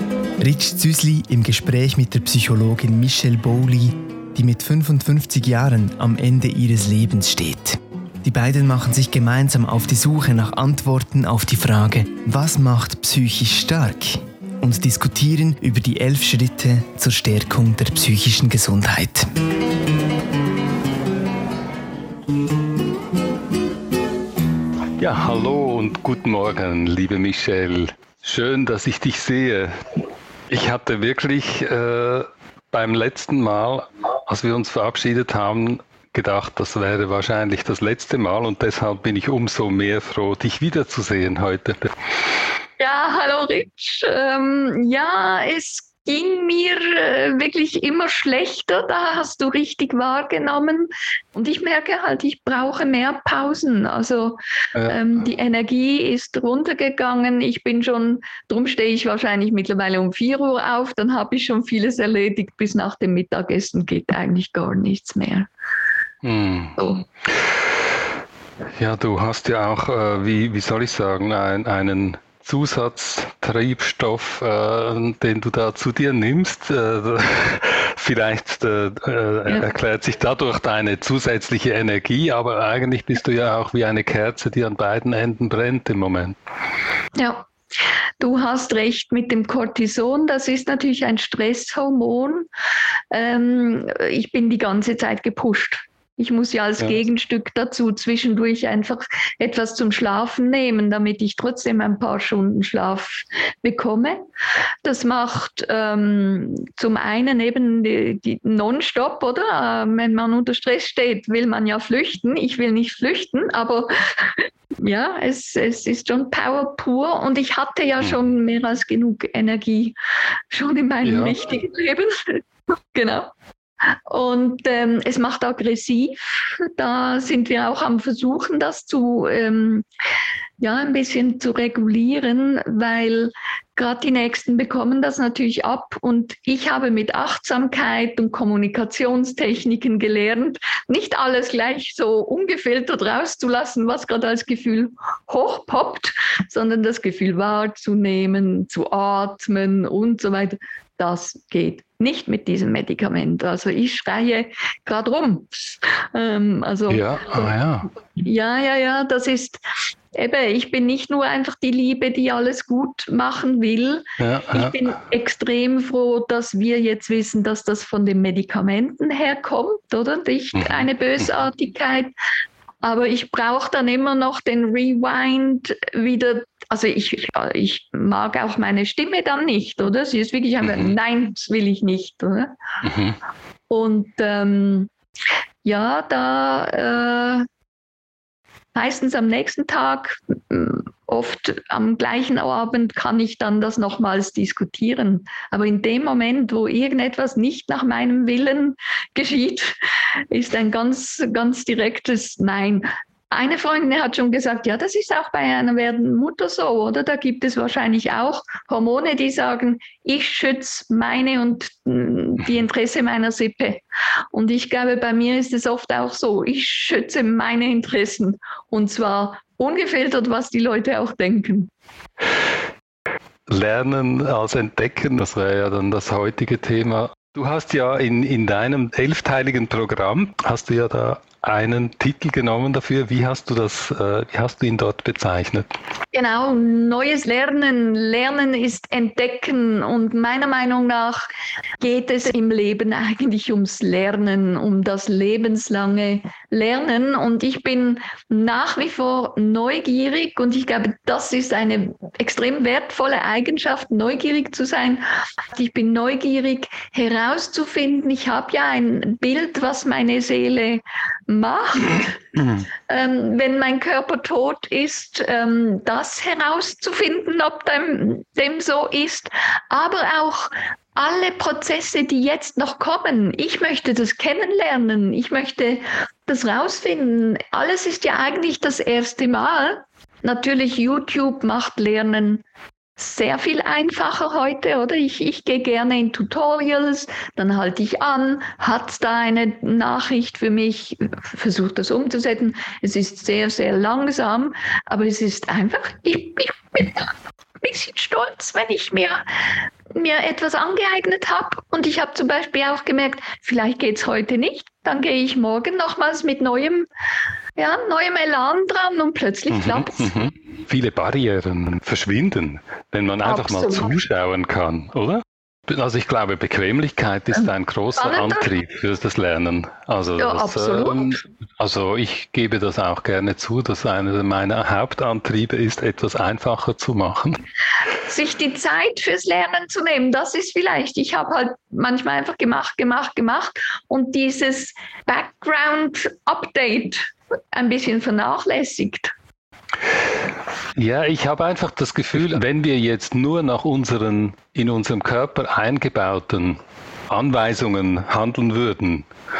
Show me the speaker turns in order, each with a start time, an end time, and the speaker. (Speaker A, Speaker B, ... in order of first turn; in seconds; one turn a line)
Speaker A: 0.4-19.2
Speaker B: 25.0-29.7
Speaker B: 30.5-41.9
Speaker C: 42.8-65.5
Speaker B: 54.8-55.0
Speaker B: 66.2-66.8
Speaker C: 66.8-67.0
Speaker B: 68.8-86.4
Speaker C: 87.2-87.5
Speaker C: 88.2-92.5
Speaker C: 93.1-104.2
Speaker C: 104.8-120.0
Speaker C: 120.5-122.4
Speaker B: 121.0-121.4
Speaker C: 122.9-123.3
Speaker C: 124.1-129.9
Speaker C: 130.6-155.5
Speaker C: 156.1-157.5
Speaker B: 156.9-157.9
Speaker C: 158.2-159.6
Speaker C: 160.1-172.1
Speaker B: 164.2-164.8
Speaker B: 170.5-171.4
Speaker C: 172.8-182.6
Speaker B: 180.6-180.9
Speaker B: 182.8-183.2
Speaker C: 183.7-184.9
Speaker C: 185.6-187.5
Speaker C: 188.7-199.8
Speaker C: 200.3-221.7
Speaker B: 223.5-235.7
Speaker C: 236.1-241.2
Speaker C: 241.8-262.1
Speaker C: 262.9-282.4
Speaker C: 283.0-297.1
Speaker C: 297.6-299.2
Speaker C: 299.9-306.9
Speaker C: 307.6-310.1
Speaker B: 309.5-327.4
Speaker C: 313.2-313.9
Speaker C: 317.3-318.5
Speaker C: 320.2-321.1
Speaker C: 328.0-339.1
Speaker B: 340.8-346.6
Speaker B: 347.1-349.1